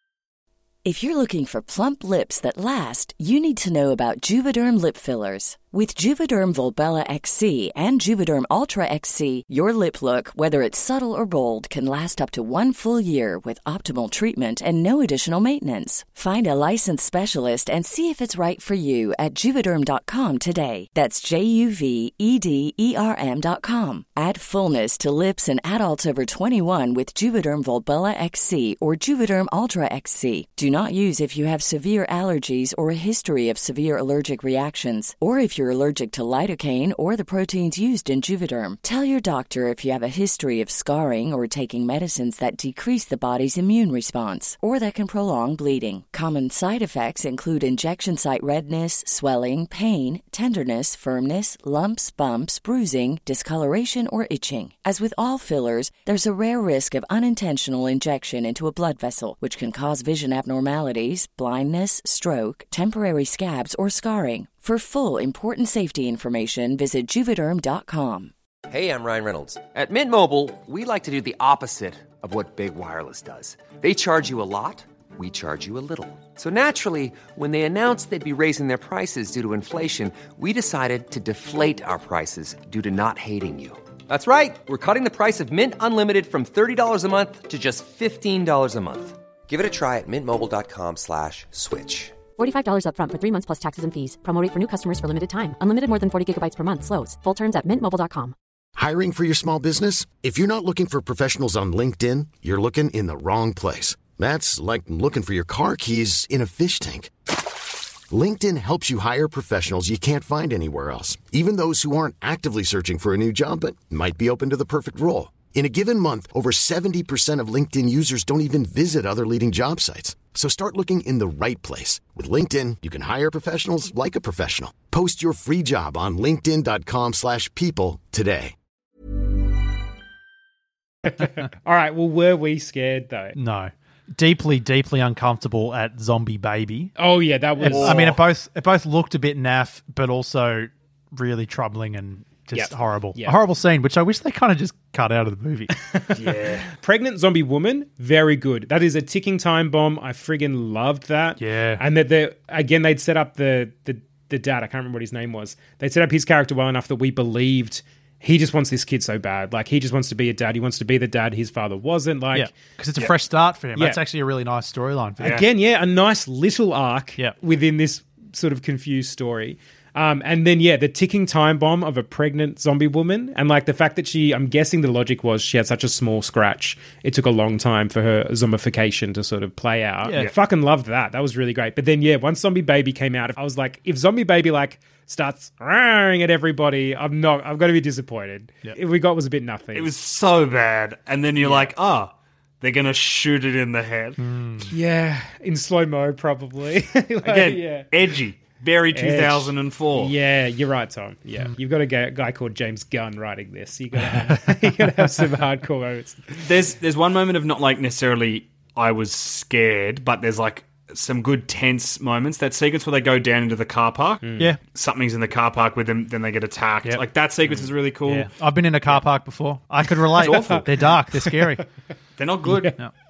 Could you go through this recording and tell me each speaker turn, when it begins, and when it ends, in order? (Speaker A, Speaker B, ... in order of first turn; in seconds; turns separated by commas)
Speaker A: 0.8-68.3, Speaker B: 68.7-92.2, Speaker C: 92.4-98.3, Speaker D: 98.8-107.1, Speaker D: 108.1-128.5, Speaker E: 131.0-133.3, Speaker F: 133.3-136.9, Speaker E: 137.0-138.2, Speaker F: 137.6-145.7, Speaker G: 137.7-138.1, Speaker E: 142.5-143.4, Speaker E: 145.8-162.5, Speaker G: 146.1-146.7, Speaker F: 151.4-151.8, Speaker F: 162.3-165.4, Speaker E: 165.2-189.9, Speaker F: 180.0-180.3, Speaker G: 189.7-194.2, Speaker E: 191.4-191.7, Speaker F: 194.2-194.7, Speaker E: 194.7-197.9, Speaker G: 197.2-200.1, Speaker E: 198.9-206.4, Speaker F: 204.3-204.9, Speaker G: 206.4-218.3, Speaker E: 214.2-214.5, Speaker F: 218.0-221.6, Speaker G: 220.1-220.8, Speaker E: 220.2-220.6, Speaker E: 221.1-221.6, Speaker G: 222.2-222.8